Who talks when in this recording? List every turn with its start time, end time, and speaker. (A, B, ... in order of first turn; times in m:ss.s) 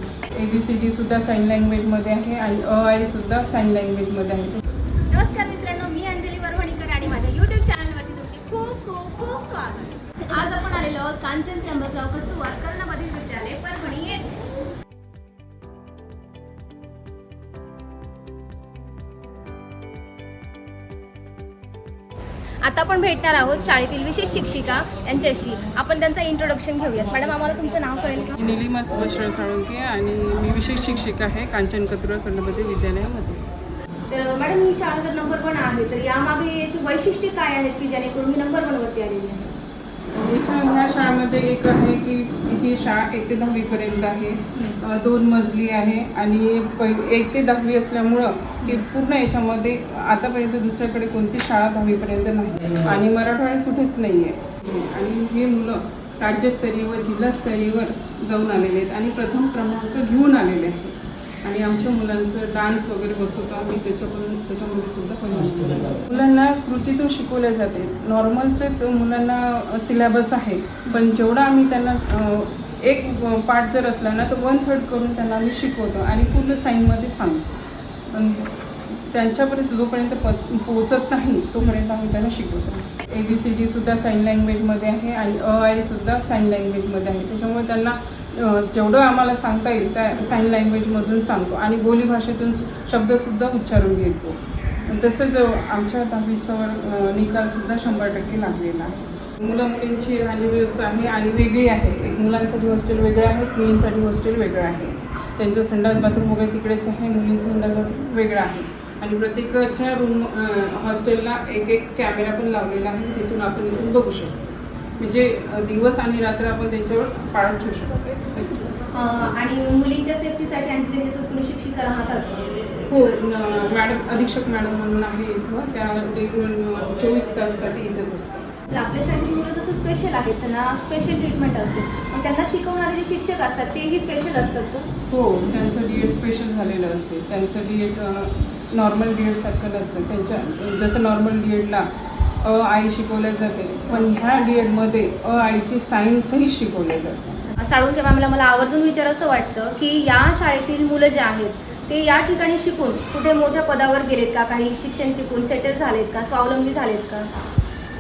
0:00.2-0:04.6 A
0:05.1-0:14.3 B
0:22.6-0:28.3 B
0:28.3-0:33.4 A
0:34.1-0:39.5 B
0:40.1-1:17.5 A
1:18.1-1:58.7 A
1:58.9-2:02.4 B
2:02.9-2:08.5 A
2:08.7-2:14.9 B
2:15.1-2:21.9 A
2:22.4-2:27.5 A
2:27.5-2:37.3 B